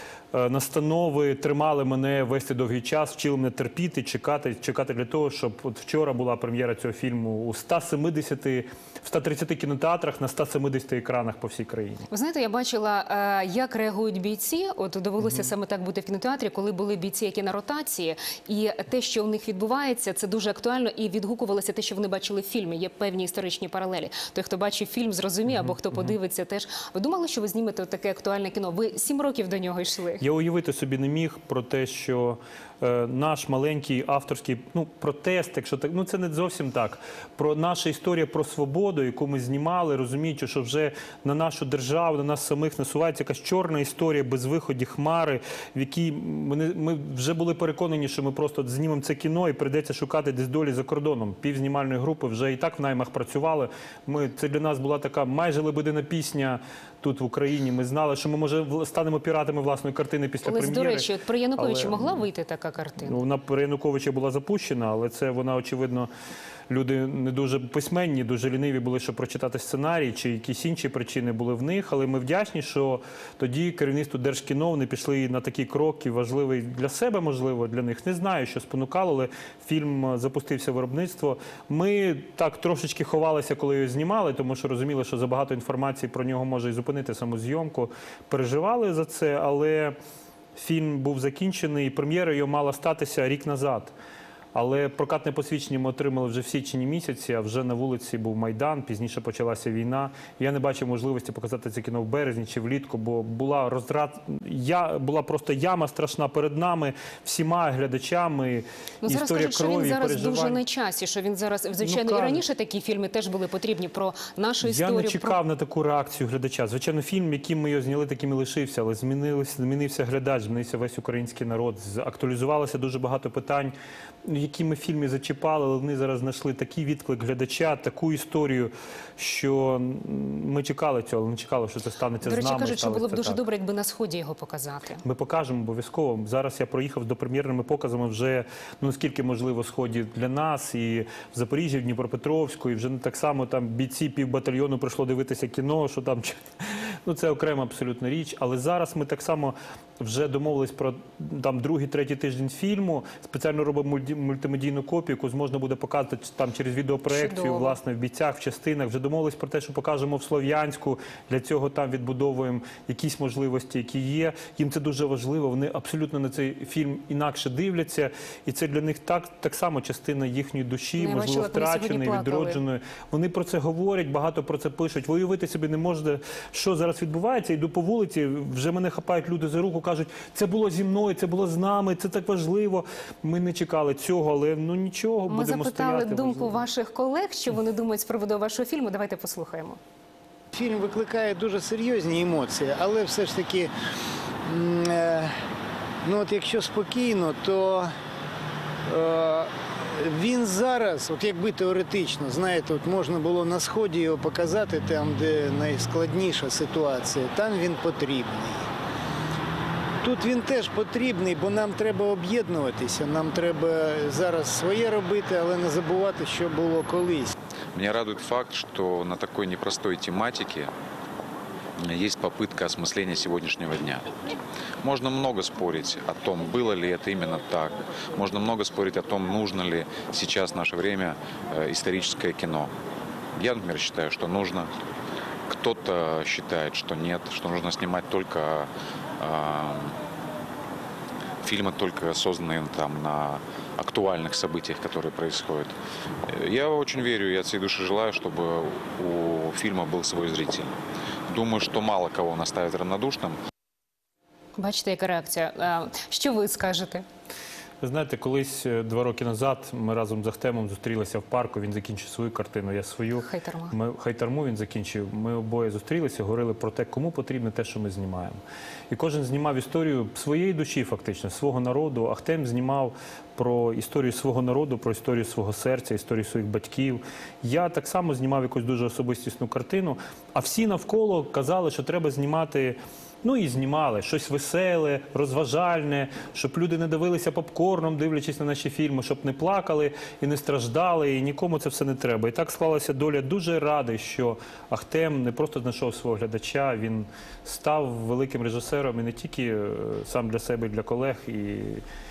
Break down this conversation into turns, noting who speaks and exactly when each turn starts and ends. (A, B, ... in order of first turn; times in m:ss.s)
0:00.3-0:12.1 A
0:12.1-0:30.2 B
0:15.2-0:15.5 A
0:25.5-0:26.2 A
0:30.2-1:02.3 A
1:00.4-1:03.2 B
1:03.0-1:06.1 A
1:06.7-1:30.0 A
1:30.6-1:33.9 A
1:34.5-1:50.6 A
1:49.0-1:55.4 B
1:51.8-1:52.4 A
1:54.6-2:03.7 A
2:04.3-2:13.4 A
2:12.2-2:15.0 B
2:15.0-3:06.6 A
2:37.1-2:37.8 B
2:51.0-2:52.6 B
3:05.3-3:09.8 B
3:10.6-3:13.7 C
3:14.5-3:15.3 C
3:16.0-3:17.9 C
3:18.9-3:28.7 C
3:30.0-3:37.3 C
3:37.7-3:40.7 D
3:41.8-3:44.1 D
3:44.8-3:52.7 D
3:53.4-3:54.7 D
3:55.5-4:00.0 D
4:01.4-4:05.8 D
4:06.3-4:10.8 D
4:11.3-4:13.4 D
4:14.6-4:17.0 B
4:17.8-4:28.4 A
4:23.2-4:23.7 B
4:28.9-5:01.8 A